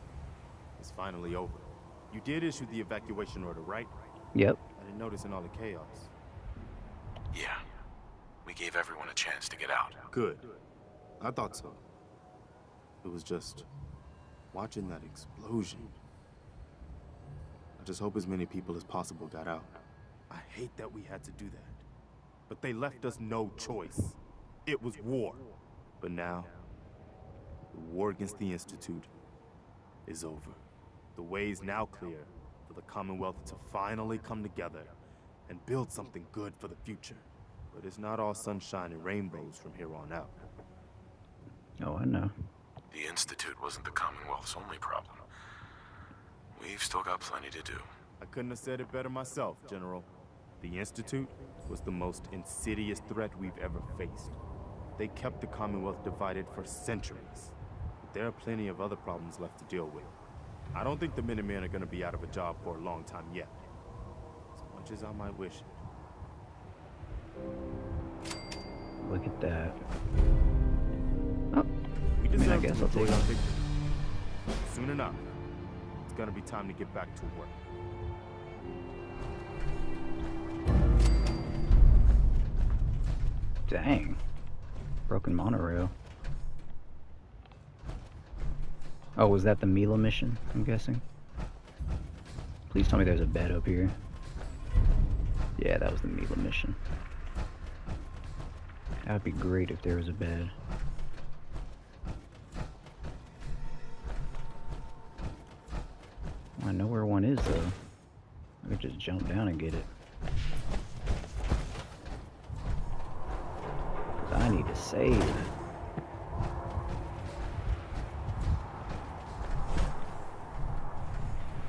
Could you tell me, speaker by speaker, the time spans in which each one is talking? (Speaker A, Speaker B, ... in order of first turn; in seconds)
Speaker A: 0.8-3.9, 4.8-6.1, 10.1-10.6, 11.2-11.8, 13.0-13.7, 14.5-15.9, 17.8-21.8, 22.5-25.4, 26.0-26.5, 27.7-29.1, 30.1-30.6, 31.1-34.9, 35.5-40.3, 48.2-50.1, 50.6-54.4, 55.0-60.1, 60.7-63.5, 64.5-65.8, 72.2-73.6, 74.6-75.2, 76.1-77.6
Speaker B: 7.3-7.6, 8.4-10.0, 42.9-45.2, 46.5-47.9
Speaker C: 41.8-42.3, 69.0-69.8, 72.3-73.3, 83.7-84.2, 85.1-85.9, 89.2-91.0, 92.7-93.9, 95.6-96.8, 99.0-100.5, 106.6-107.7, 108.6-109.9, 114.3-115.5